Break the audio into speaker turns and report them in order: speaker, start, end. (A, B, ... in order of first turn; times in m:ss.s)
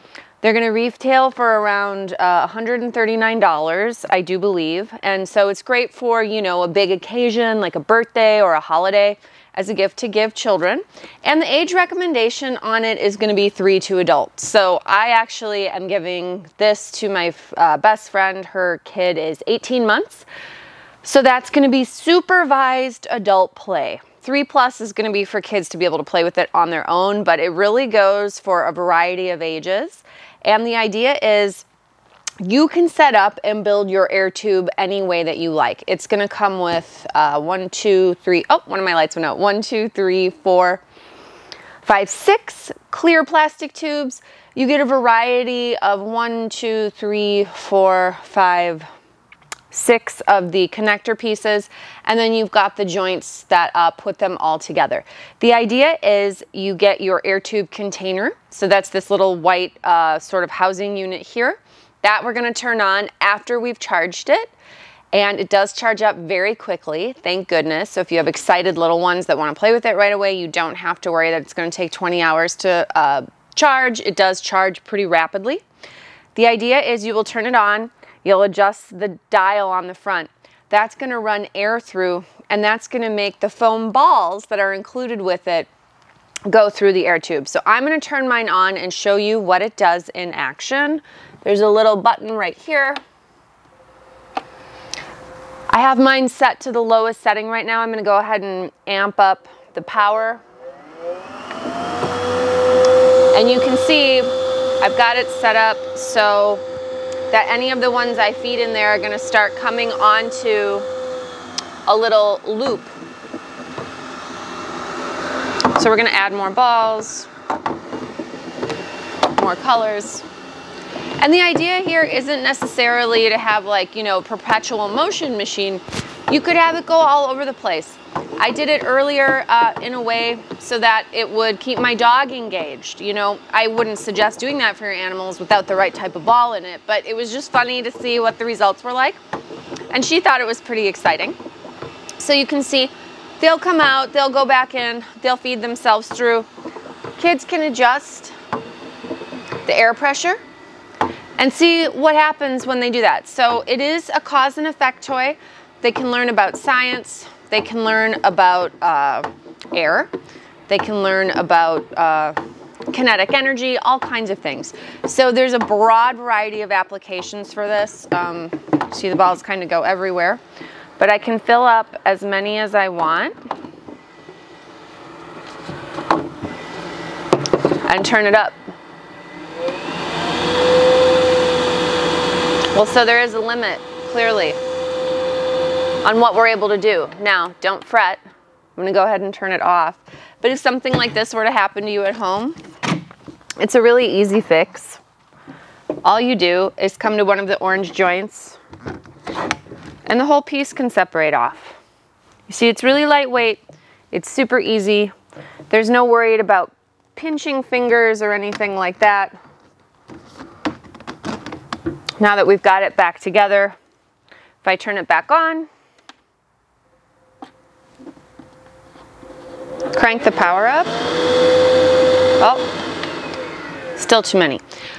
0:00.4-0:20.3 A
0:21.0-0:31.6 A
0:32.4-0:40.8 A
0:41.8-0:48.9 A
0:49.7-1:04.5 A
1:05.1-1:15.6 A
1:16.4-1:25.7 A
1:26.5-1:33.0 A
1:35.7-1:40.4 A
1:43.3-1:46.6 A
1:47.3-1:50.9 A
1:51.9-1:52.9 A
1:55.7-1:57.3 A
1:59.3-2:00.2 A
2:01.2-2:19.2 A
2:19.9-2:21.4 A
2:22.2-2:26.5 A
2:27.2-2:28.4 A
2:29.7-2:30.4 A
2:31.4-2:40.1 A
2:40.7-2:42.4 A
2:42.9-2:50.4 A
2:51.0-2:53.4 A
2:57.8-2:58.6 A
3:02.7-3:04.6 A
3:06.0-3:08.2 A
3:08.8-3:12.6 A
3:13.6-3:15.0 A
3:16.0-3:18.6 A
3:20.1-3:21.8 A
3:22.5-3:25.1 A
3:25.7-3:29.4 A
3:32.2-3:33.8 A
3:34.6-3:35.7 A
3:39.9-3:40.9 A
3:42.4-3:42.7 A
3:44.0-3:44.6 A